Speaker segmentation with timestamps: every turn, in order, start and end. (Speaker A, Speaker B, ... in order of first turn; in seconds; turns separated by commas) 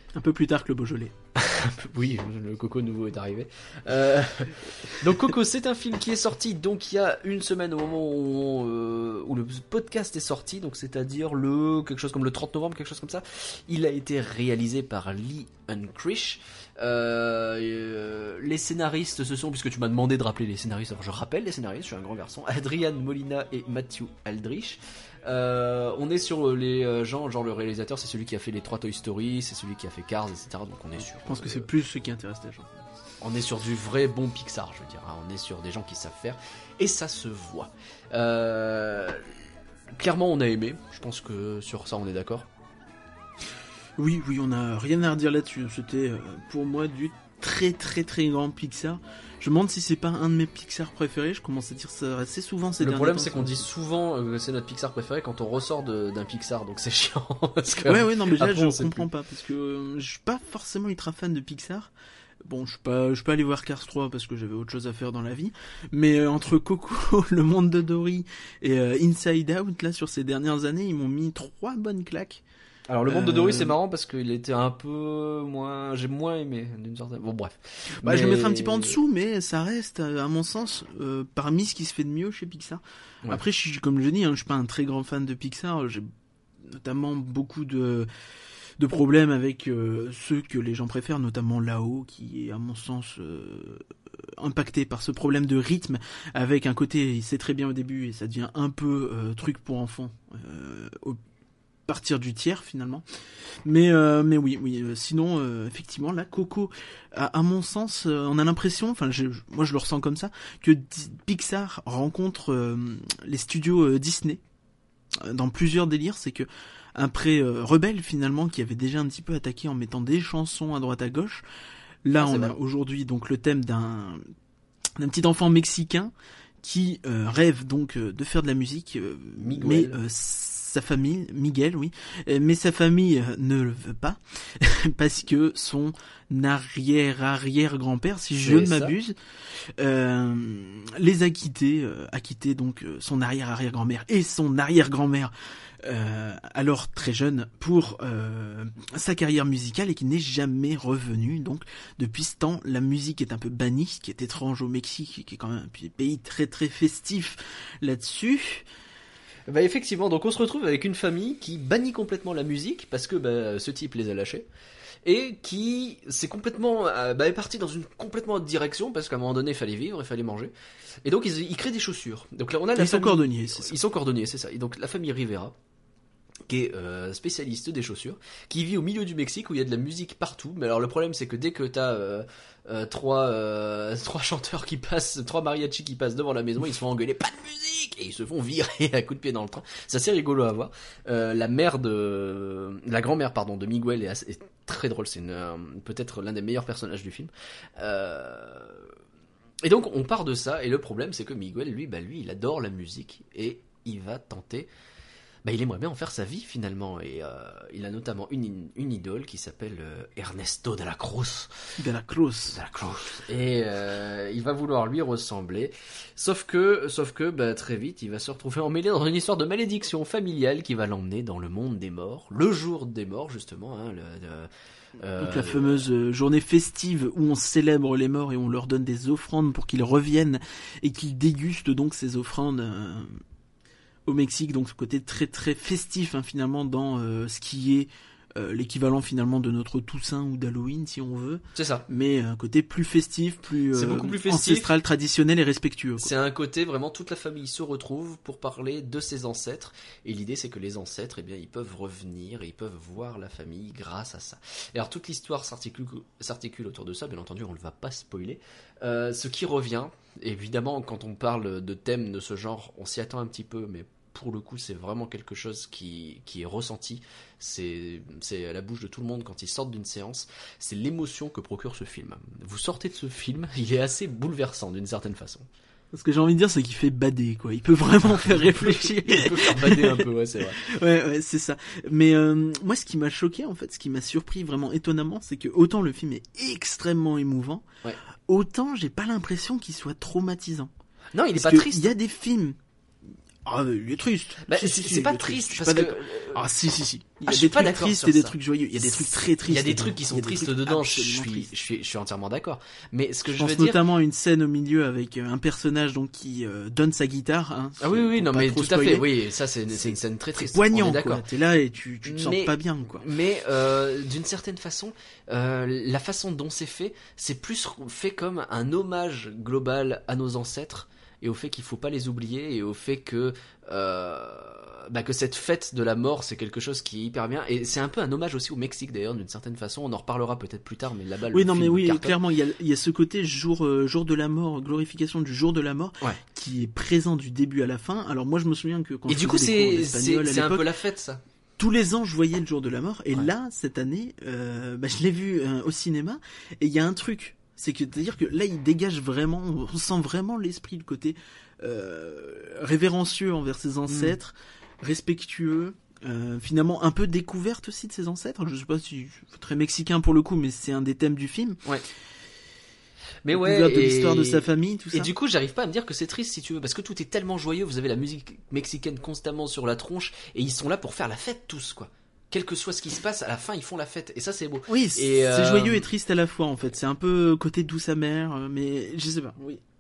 Speaker A: 0.1-1.1, Speaker B: 1.4-31.7, Speaker A: 31.2-32.8, Speaker B: 33.2-39.3, Speaker B: 40.0-42.5, Speaker A: 44.0-53.7, Speaker B: 52.8-59.0, Speaker A: 57.8-61.9, Speaker A: 62.4-72.4, Speaker B: 72.9-79.0, Speaker A: 73.1-73.8, Speaker A: 78.0-86.1, Speaker A: 86.6-88.1, Speaker A: 88.8-101.2, Speaker A: 101.9-103.0, Speaker A: 103.7-114.4, Speaker A: 115.1-121.4, Speaker A: 122.0-124.2, Speaker B: 122.2-122.6, Speaker A: 125.0-158.7, Speaker B: 129.4-130.0, Speaker B: 138.4-138.9, Speaker B: 159.5-164.5, Speaker B: 165.0-170.5, Speaker B: 171.0-175.6, Speaker A: 172.8-173.8, Speaker B: 176.5-198.9, Speaker B: 199.6-204.7, Speaker B: 205.4-211.5, Speaker A: 211.8-212.6, Speaker B: 212.5-224.5, Speaker B: 225.0-225.9, Speaker A: 225.2-233.2, Speaker A: 234.1-246.1, Speaker B: 241.6-241.9, Speaker B: 243.7-244.7, Speaker B: 246.0-275.5, Speaker A: 275.9-287.7, Speaker B: 278.5-280.6, Speaker A: 288.3-290.7, Speaker B: 291.1-291.9, Speaker A: 291.3-292.6, Speaker A: 293.4-301.5, Speaker B: 294.4-296.5, Speaker B: 297.3-303.8, Speaker A: 303.3-309.1, Speaker B: 307.8-311.2, Speaker A: 309.8-313.1, Speaker B: 312.1-332.1, Speaker A: 331.3-340.7, Speaker B: 339.1-341.2, Speaker A: 341.6-361.6, Speaker B: 353.9-354.1, Speaker B: 363.2-375.9, Speaker A: 363.3-365.1, Speaker A: 374.7-379.6